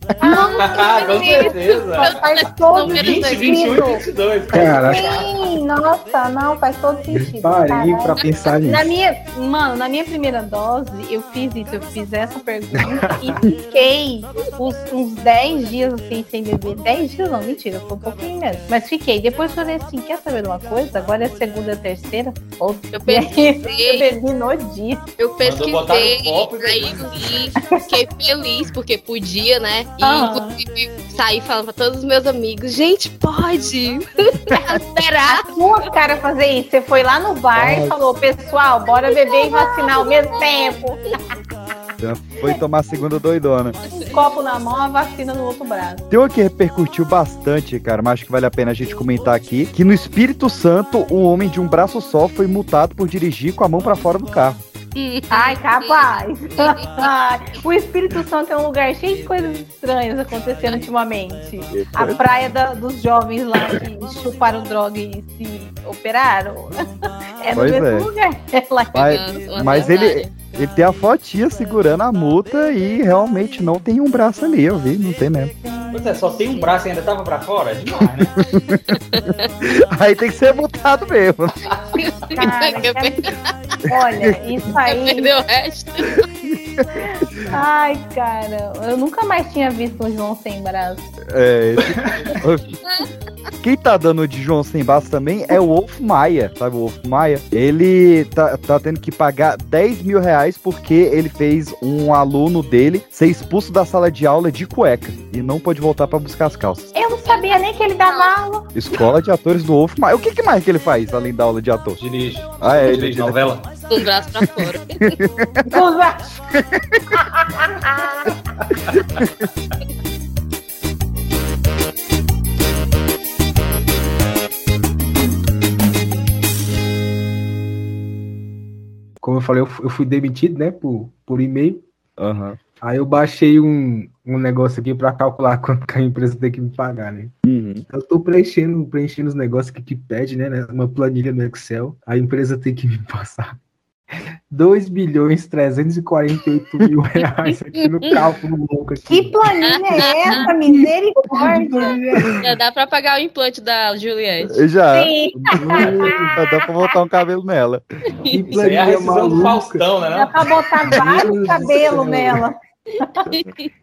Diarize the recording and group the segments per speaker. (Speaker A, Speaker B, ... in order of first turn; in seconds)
Speaker A: 0.2-4.0, 4.7-25.1, 27.6-27.9, 30.0-30.6, 35.3-41.2, 44.0-46.0, 55.3-66.8, 67.4-69.3, 75.7-76.8, 82.2-83.2, 83.9-85.3, 87.5-91.1, 107.0-108.7, 115.7-116.2, 117.2-118.3, 149.1-152.0, 154.9-156.7, 160.1-163.3
Speaker B: 0.2-3.9, 22.9-24.1, 25.2-35.6, 39.0-40.8, 55.0-56.1, 56.6-57.1, 69.0-70.3, 79.1-79.5, 82.0-83.5, 84.9-86.2, 107.3-108.3, 113.9-115.2, 152.4-154.6, 158.2-158.6, 163.3-163.7
Speaker C: 0.6-2.2, 2.8-5.3, 25.4-27.1, 75.9-78.4, 112.0-113.7, 158.5-160.4
Speaker D: 4.5-5.1, 7.1-8.9, 12.8-13.4, 37.6-37.9, 129.2-131.8, 132.8-137.3, 137.9-143.6, 144.5-152.4, 155.5-156.4, 158.3-159.9, 160.7-162.5
Speaker E: 42.0-43.8, 46.1-54.6, 61.7-62.2, 67.5-68.1, 68.9-75.5, 78.2-79.0, 79.7-81.6, 86.5-86.9, 91.3-92.7, 93.6-106.9, 108.7-112.0, 112.6-113.4, 115.2-115.7, 116.5-117.2, 132.2-132.6, 137.4-137.8, 154.5-157.8